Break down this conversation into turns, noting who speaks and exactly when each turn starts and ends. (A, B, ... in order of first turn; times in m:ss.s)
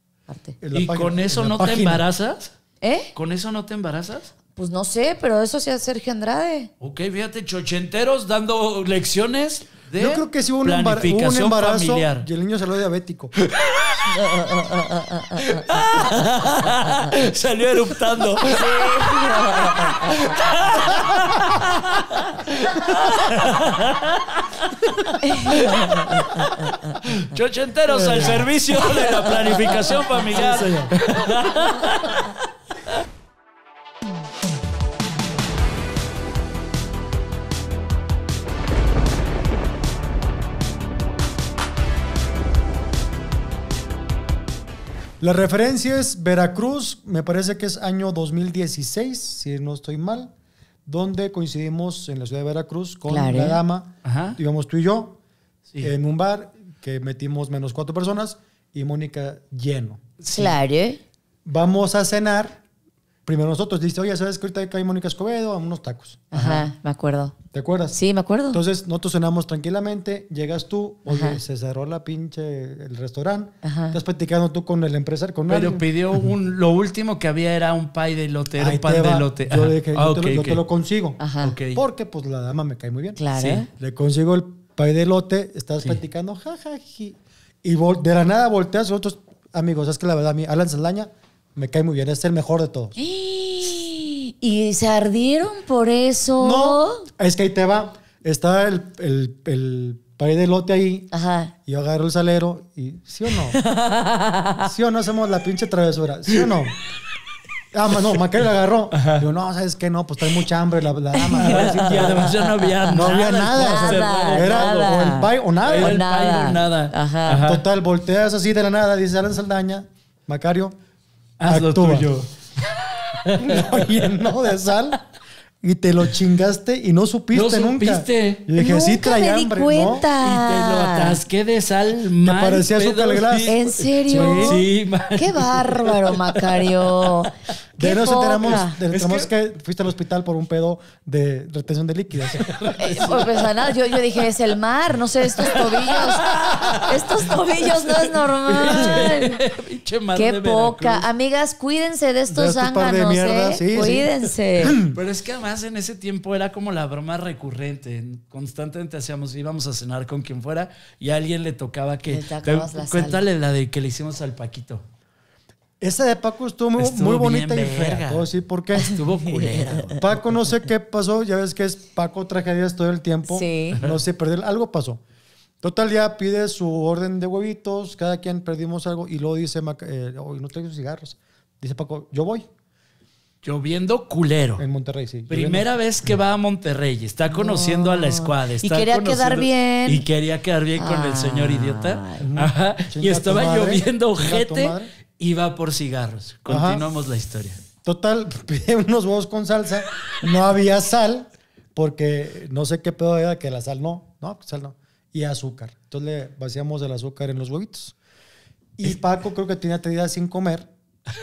0:00.3-0:00.6 A
0:00.6-0:02.0 B
0:00.7-0:02.5 C
0:02.8-0:03.1 A
0:03.1-0:04.3 C
0:04.6-0:06.7 A
0:06.8-0:12.2 C
0:10.0-0:13.3 B
0:13.4-0:14.7 C
0:14.1-0:15.7 A
0:15.4-0:33.0 C
0:18.5-0:20.4 A
0:25.2-0:26.7 A
0:27.9-0:28.5 B
0:29.5-0:30.9 B
0:45.2-0:50.3 B
0:50.8-0:55.2 B
0:53.1-0:53.6 A
0:54.0-0:54.4 C
0:55.8-1:00.0 B
1:00.2-1:00.6 C
1:00.3-1:01.0 A
1:01.4-1:02.6 B
1:03.2-1:06.2 B
1:06.3-1:07.4 A
1:06.3-1:06.7 C
1:07.5-1:08.0 B
1:07.9-1:08.6 A
1:08.5-1:15.8 B
1:11.1-1:11.4 A
1:13.6-1:14.0 A
1:15.5-1:20.6 C
1:18.6-1:23.2 B
1:21.2-1:21.6 A
1:21.4-1:21.8 C
1:23.2-1:23.7 A
1:23.3-1:23.6 C
1:23.7-1:33.0 B
1:33.0-1:37.1 A
1:36.4-1:41.1 B
1:41.1-1:41.5 A
1:41.6-1:43.6 B
1:43.5-1:44.7 A
1:44.6-1:46.8 B
1:47.7-1:52.3 B
1:48.9-1:49.2 C
1:51.2-1:57.5 A
1:51.3-1:54.9 C
1:52.9-1:56.0 B
1:55.6-1:57.6 C
1:57.4-2:00.7 B
2:01.4-2:04.2 C
2:01.4-2:02.1 B
2:03.3-2:05.0 B
2:05.6-2:10.0 B
2:07.3-2:08.4 C
2:08.6-2:11.2 A
2:10.2-2:17.3 C
2:12.2-2:14.6 B
2:13.4-2:18.8 A
2:17.8-2:22.6 B
2:18.4-2:19.3 C
2:22.3-2:24.2 C
2:22.8-2:29.4 A
2:25.4-2:31.1 C
2:28.5-2:29.1 B
2:30.1-2:34.8 A
2:32.3-2:35.0 B
2:34.8-2:44.8 C
2:42.1-2:43.2 A
2:45.8-2:48.9 B
2:46.8-2:50.1 C
2:48.8-2:50.0 A
2:50.0-2:55.0 B
2:53.2-2:53.8 A
2:55.6-3:02.5 B
3:03.4-3:04.6 C
3:04.6-3:05.7 B
3:05.3-3:17.6 C
3:07.3-3:10.0 A
3:10.8-3:12.3 A
3:12.2-3:14.9 B
3:16.5-3:16.8 B
3:17.8-3:27.9 B
3:28.8-3:30.7 B